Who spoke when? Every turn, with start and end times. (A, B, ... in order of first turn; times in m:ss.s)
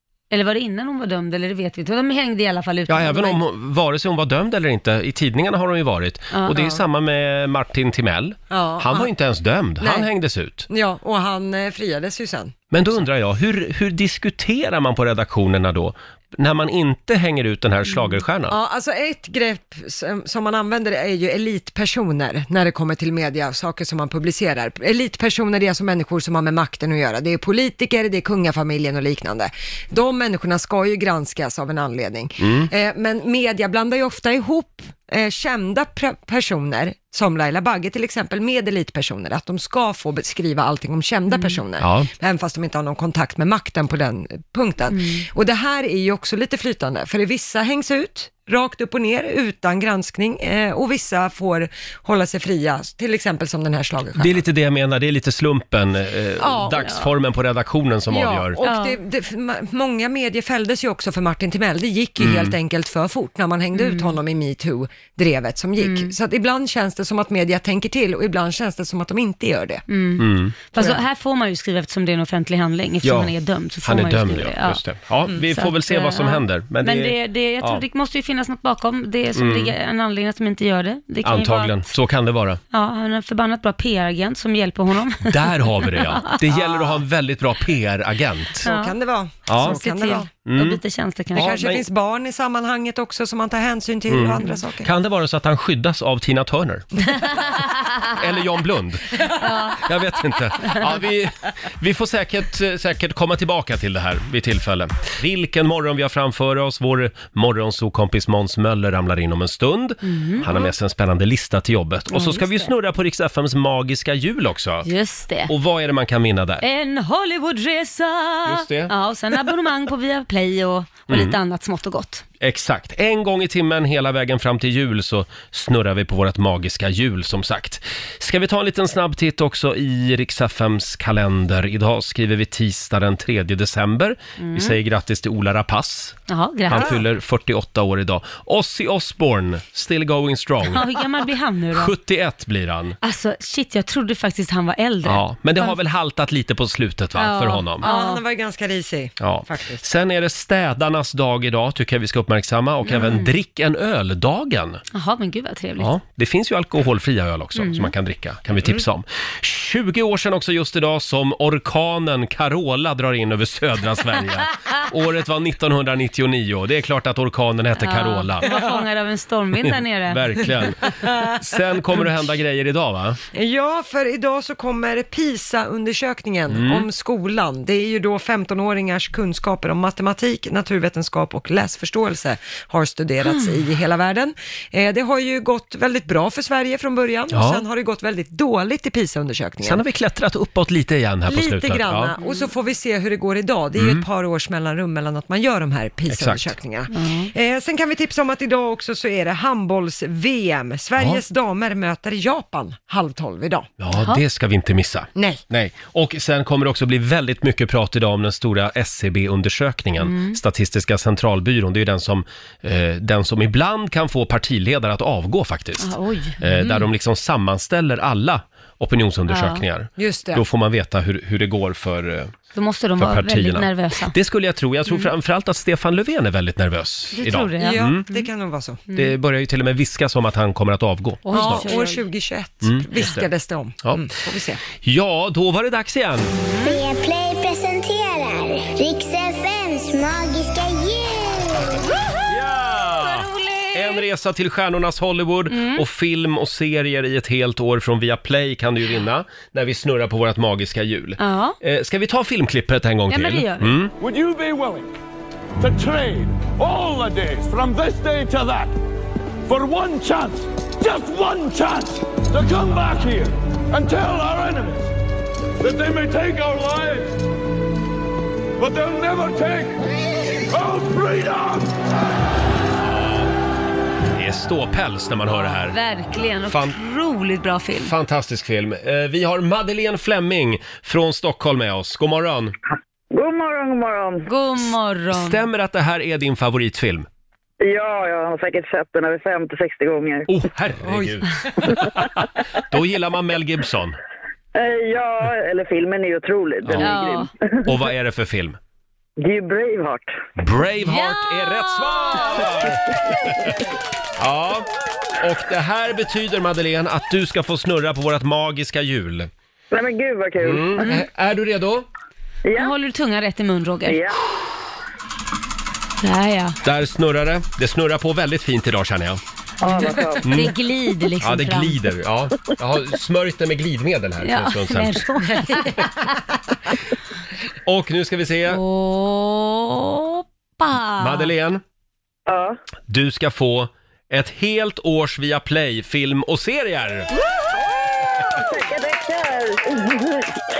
0:00.3-0:03.4 A
0:02.9-0:10.7 B
0:06.3-0:06.6 A
0:08.5-0:09.1 C
0:09.8-0:10.1 C
0:10.7-0:12.6 C
0:12.7-0:18.6 B
0:18.5-0:54.4 C
0:32.4-0:32.7 B
0:41.3-0:41.6 A
0:41.8-0:42.1 B
0:44.9-0:45.2 A
0:54.2-0:58.6 B
0:56.4-0:56.9 C
0:58.1-1:09.8 C
0:58.6-0:59.0 A
1:02.2-1:02.6 B
1:03.7-1:04.2 A
1:05.8-1:06.1 A
1:09.9-1:14.8 A
1:10.2-1:10.6 B
1:10.7-1:11.0 C
1:13.0-1:13.3 B
1:13.8-1:17.8 B
1:15.4-1:21.8 A
1:19.4-1:19.7 B
1:21.2-1:22.6 B
1:22.7-1:26.4 A
1:25.3-1:28.7 B
1:26.5-1:27.0 C
1:28.6-1:30.3 C
1:28.6-1:29.0 A
1:29.5-1:29.8 B
1:29.6-1:31.6 A
1:30.4-1:30.8 B
1:31.3-1:31.8 B
1:31.4-1:34.9 C
1:34.1-1:37.1 B
1:37.3-1:38.0 A
1:38.1-1:54.9 B
1:39.2-1:39.8 A
1:50.0-1:50.5 A
1:52.1-1:52.7 A
1:54.8-1:55.5 A
1:55.5-1:56.6 B
1:56.6-2:02.2 A
1:58.4-1:58.9 B
2:01.1-2:01.4 B
2:02.4-2:20.9 B
2:14.4-2:14.8 A
2:16.3-2:17.0 A
2:20.6-2:21.9 A
2:21.7-2:23.0 B
2:23.0-2:25.8 A
2:25.0-2:27.9 B
2:27.2-2:28.2 A
2:27.8-2:29.8 C
2:29.2-2:34.8 B
2:32.9-2:33.3 A
2:34.9-2:35.9 A
2:35.8-2:48.6 B
2:37.6-2:37.9 A
2:47.8-2:50.4 A
2:49.6-2:53.2 B
2:53.3-3:09.8 C
2:56.5-2:56.9 B
3:03.2-3:03.6 A
3:07.3-3:07.6 B
3:09.6-3:12.2 B
3:11.3-3:23.7 C
3:12.2-3:12.5 A
3:13.8-3:14.0 B
3:16.1-3:16.5 B
3:16.9-3:17.3 A
3:23.8-3:42.4 B
3:23.9-3:24.2 A
3:25.2-3:25.4 C
3:30.0-3:30.4 A
3:35.8-3:36.9 A
3:39.3-3:39.6 A
3:40.0-3:40.4 C
3:42.5-3:44.2 A
3:43.0-3:48.1 B
3:44.9-3:45.1 A
3:47.1-3:48.3 A
3:47.6-3:48.8 C
3:48.9-3:49.1 A
3:48.9-3:51.7 B
3:51.2-3:52.1 A
3:51.3-3:54.6 C
3:52.6-3:53.3 B
3:54.7-3:56.3 B
3:56.3-3:56.8 A
3:56.6-4:01.8 D
4:02.3-4:13.9 B
4:03.0-4:04.1 A
4:05.5-4:05.8 A
4:11.2-4:11.6 A
4:13.1-4:13.8 A
4:14.0-4:14.9 E
4:15.6-4:18.7 E
4:19.5-4:24.9 E
4:25.6-4:27.2 E
4:28.6-4:29.8 E
4:30.5-4:31.7 E
4:32.8-4:33.3 B
4:34.2-4:35.8 B
4:35.3-4:37.9 A
4:36.5-4:36.8 B
4:37.8-4:42.5 B
4:43.1-4:44.2 F
4:44.3-4:45.4 A
4:45.1-4:47.1 B
4:47.6-4:50.3 F
4:50.3-4:54.0 B
4:50.8-4:51.2 C
4:54.6-4:57.3 F
4:56.6-4:56.9 B
4:56.8-4:57.3 A
4:57.6-4:58.6 B
4:59.2-5:00.1 F
5:00.4-5:03.6 B
5:00.8-5:02.8 A
5:04.2-5:04.7 B
5:05.2-5:09.3 B
5:09.7-5:10.9 F
5:10.4-5:11.9 B
5:12.4-5:12.7 F
5:12.5-5:14.0 A
5:13.9-5:14.2 F
5:16.0-5:16.6 A
5:16.6-5:19.2 B
5:19.6-5:20.4 F
5:19.7-5:21.8 A
5:20.2-5:20.6 B
5:21.2-5:25.1 B
5:24.2-5:26.2 A
5:27.6-5:28.6 B
5:28.5-5:31.3 A
5:31.0-5:31.6 B
5:32.3-5:32.6 F
5:32.9-5:37.1 B
5:37.5-5:40.4 F